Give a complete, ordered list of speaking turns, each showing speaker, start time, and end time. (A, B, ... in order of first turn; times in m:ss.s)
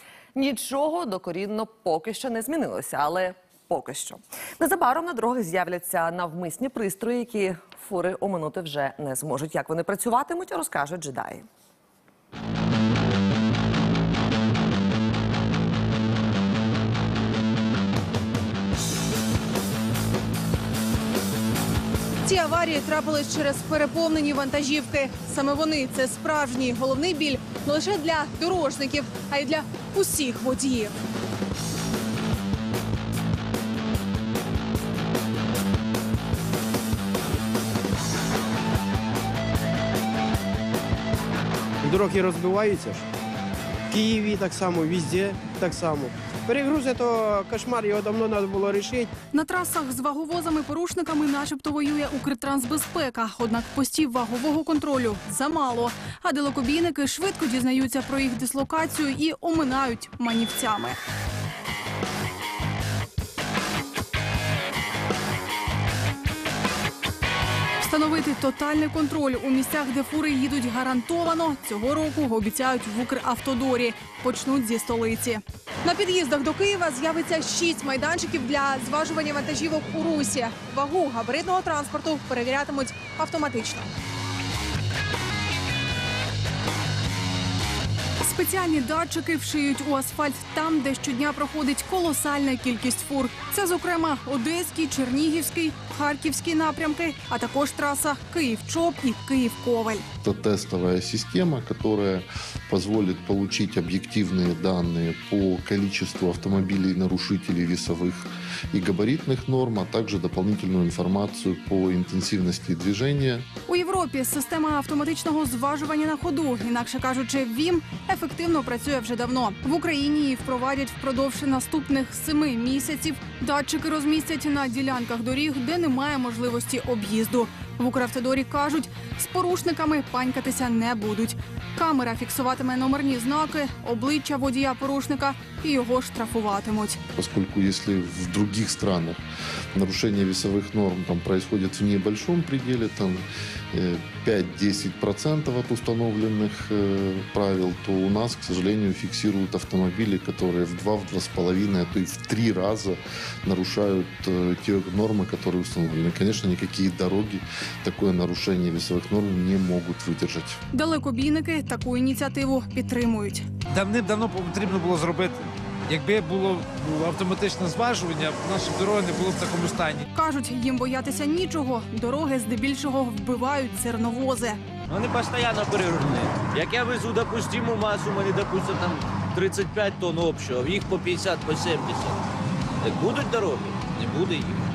0:00.3-0:11.4 A
0:22.2-0:30.9 B
0:41.8-0:43.0 C
0:43.9-0:49.1 C
0:49.3-1:01.0 B
1:07.8-1:23.9 B
1:28.2-1:40.0 B
1:40.2-1:53.4 D
1:53.7-2:17.0 B
2:17.2-2:19.2 D
2:19.7-2:40.6 D
2:40.7-2:43.4 B
2:43.7-2:50.0 E
2:50.1-2:54.6 B
2:54.9-3:02.2 F
3:02.8-3:04.6 F